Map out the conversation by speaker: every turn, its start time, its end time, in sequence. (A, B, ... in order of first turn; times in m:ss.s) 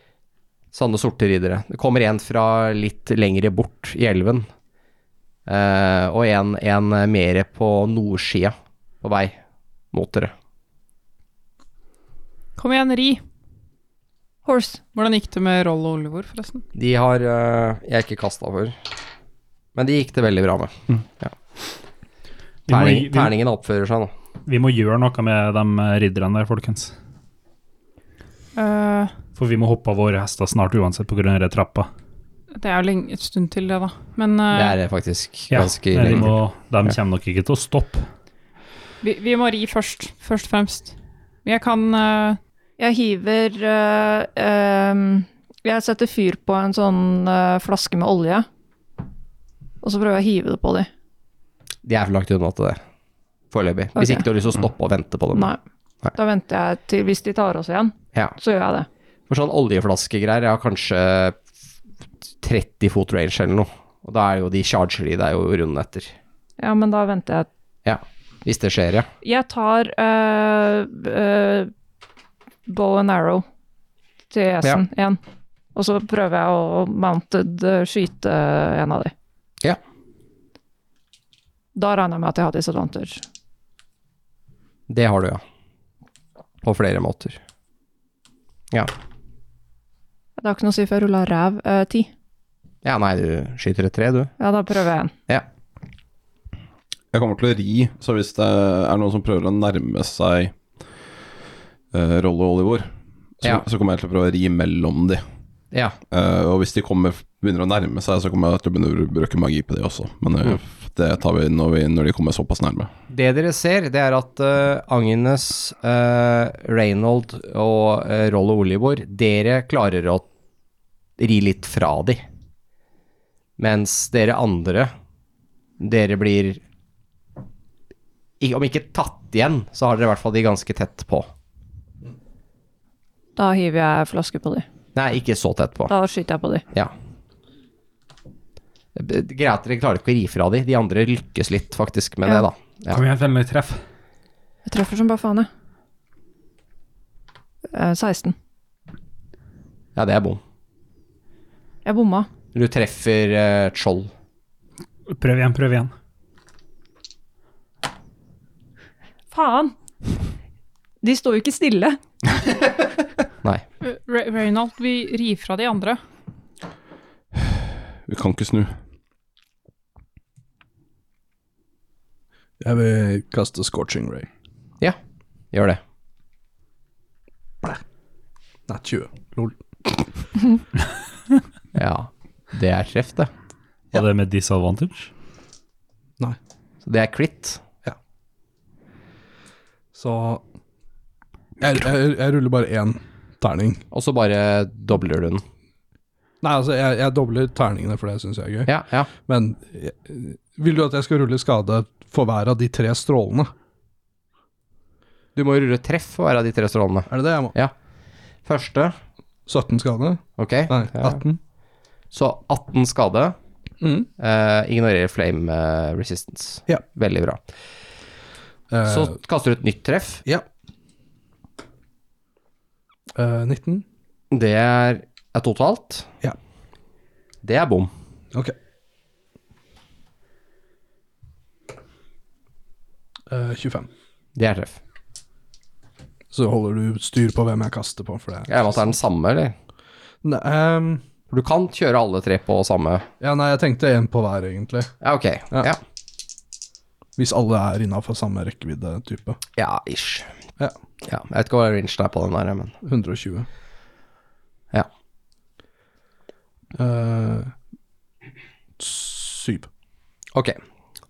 0:00.7-0:04.5 A
0:05.5-0:09.4 A
0:09.9-0:10.3 A
0:12.6-0:13.2 B
0:14.5-0:14.8 C
0:14.9-0:16.6 B
0:16.8-0:18.8 A
0:19.8-0:21.3 A
0:22.7-0:23.3 D
0:22.7-0:24.1 A
0:24.5-0:26.9 D
0:28.6-0:29.1 B
0:29.4-0:31.9 D
0:32.6-0:34.8 B
0:34.5-0:36.3 A
0:35.5-0:38.0 D
0:39.0-0:42.4 B
0:42.8-0:48.5 C
0:49.8-0:50.9 C
0:51.8-0:52.8 A
0:53.5-0:55.5 A
0:54.0-0:54.3 C
0:55.3-0:55.6 C
0:56.1-0:58.9 C
0:59.3-1:01.4 A
1:02.4-1:06.1 A
1:06.6-1:07.5 C
1:07.8-1:09.1 A
1:09.2-1:11.7 C
1:12.7-1:13.4 C
1:14.3-1:15.2 C
1:15.8-1:19.1 C
1:21.8-1:23.2 C
1:24.9-1:25.4 A
1:26.6-1:27.4 A
1:30.4-1:32.1 C
1:32.8-1:34.3 A
1:34.4-1:35.1 C
1:37.1-1:40.6 E
1:41.9-1:45.2 E
1:45.7-1:46.0 A
1:46.1-1:52.9 E
1:53.1-2:00.3 A
2:01.2-2:02.2 A
2:03.6-2:04.9 A
2:05.8-2:06.6 A
2:08.4-2:11.3 A
2:13.4-2:14.7 C
2:15.0-2:15.9 A
2:15.9-2:16.6 C
2:19.0-2:23.0 A
2:22.9-2:23.8 D
2:24.7-2:25.5 C
2:27.7-2:28.4 C
2:30.0-2:30.4 A
2:31.8-2:32.3 C
2:32.5-2:34.1 A
2:35.1-2:35.9 D
2:39.3-2:39.7 C
2:41.0-2:42.0 C
2:43.8-2:46.0 B
2:47.4-2:48.8 E
2:52.6-2:54.3 F
2:55.5-2:55.8 A
2:58.7-3:00.0 F
3:01.7-3:03.3 A
3:03.9-3:05.1 D
3:06.8-3:07.6 A
3:09.9-3:10.4 F
3:11.6-3:13.8 F
3:13.9-3:15.4 A
3:16.4-3:18.7 F
3:18.7-3:19.1 A
3:19.3-3:23.5 F
3:25.4-3:27.7 A
3:27.1-3:27.5 F
3:28.5-3:29.0 A
3:29.5-3:31.4 F
3:30.4-3:31.2 A
3:32.1-3:33.4 A
3:33.8-3:34.1 F
3:34.2-3:37.4 A
3:38.7-3:39.1 F
3:38.9-3:40.2 A
3:43.2-3:43.8 F
3:44.3-3:46.1 A
3:47.4-3:47.9 A
3:53.3-3:53.9 F
3:54.4-3:54.8 A
3:56.3-3:58.8 F
3:58.5-3:59.6 A
4:00.2-4:01.0 F
4:01.3-4:03.1 A
4:03.2-4:04.9 F
4:05.0-4:05.8 A
4:07.2-4:09.4 F
4:09.6-4:10.3 A
4:11.0-4:12.7 A
4:12.8-4:13.5 F
4:16.8-4:17.5 F
4:18.8-4:19.7 F
4:20.3-4:20.6 A